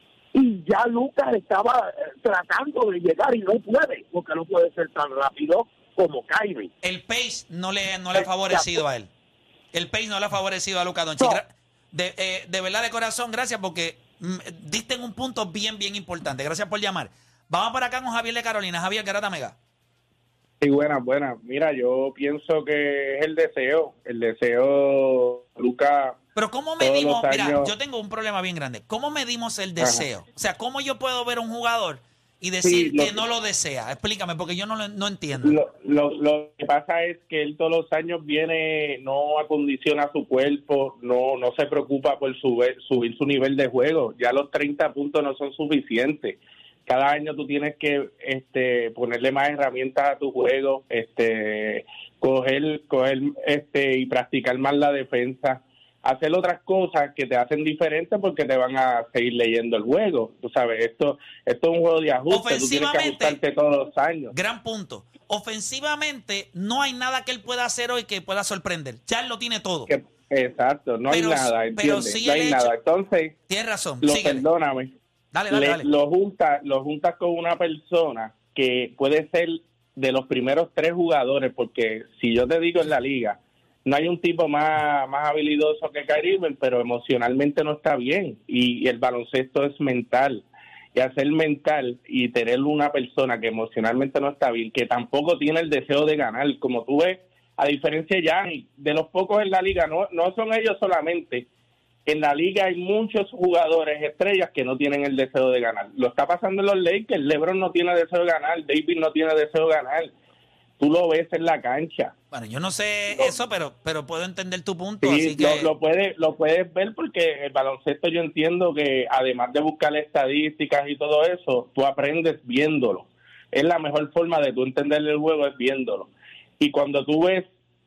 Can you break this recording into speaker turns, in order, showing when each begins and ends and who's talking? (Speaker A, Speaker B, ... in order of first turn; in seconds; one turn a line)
Speaker A: 0.3-6.7
Speaker B: 6.8-9.1
Speaker A: 8.2-8.7
Speaker B: 9.7-19.6
Speaker C: 20.6-26.2
Speaker B: 26.4-35.6
Speaker C: 26.8-27.7
Speaker C: 29.8-30.0
Speaker C: 32.6-33.2
Speaker C: 35.4-64.3
Speaker B: 62.3-63.4
Speaker B: 64.3-69.9
Speaker C: 69.9-73.3
Speaker B: 71.1-72.7
Speaker B: 73.5-74.5
Speaker C: 74.0-74.9
Speaker B: 75.3-75.9
Speaker C: 75.5-101.5
Speaker C: 102.1-110.1
Speaker C: 110.8-112.1
Speaker B: 112.3-115.7
Speaker C: 115.0-127.5